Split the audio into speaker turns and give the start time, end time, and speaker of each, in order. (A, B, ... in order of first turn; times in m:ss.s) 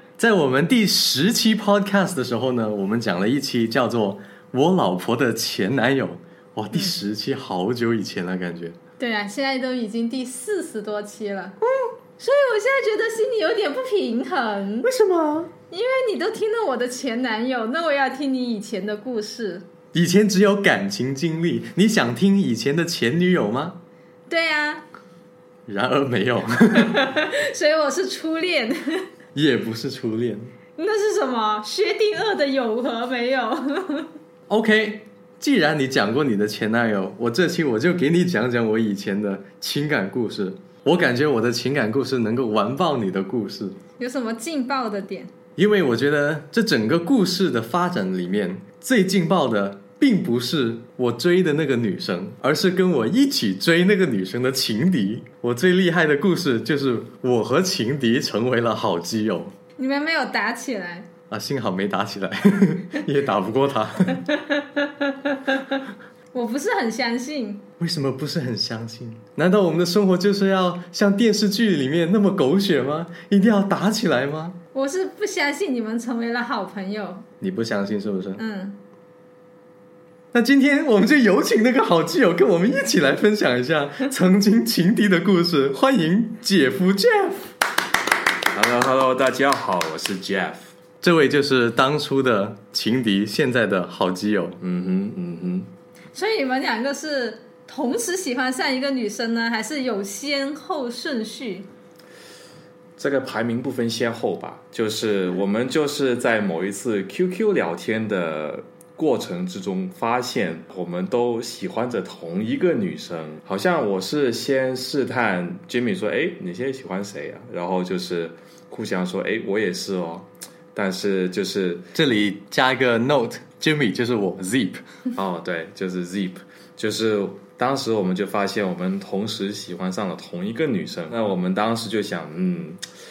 0:00.2-0:08.8 A
0:09.0-0:11.6 B
0:12.2-0:14.9 B
0:14.8-0:15.5 A
0:15.7-0:19.6 B
0:19.9-0:23.8 A
0:24.3-0:24.8 B
0:25.7-0:27.0 A
0:26.7-0:29.1 B
0:29.3-0:30.5 A
0:30.8-0:34.1 B
0:34.5-0:43.8 A
0:44.0-0:45.3 B
0:45.6-0:59.5 A
0:59.8-1:01.1 B
1:01.3-1:04.2 A
1:04.3-1:05.8 B
1:06.3-1:07.6 B
1:07.8-1:14.6 A
1:14.7-1:17.2 B
1:17.4-1:18.4 A
1:18.4-1:18.8 B
1:20.3-1:27.5 A
1:28.5-1:30.7 C
1:31.0-1:34.6 A
1:34.6-1:35.7 C
1:36.1-1:41.6 B
1:43.0-2:01.9 C
2:01.9-2:04.8 A
2:05.1-2:12.8 C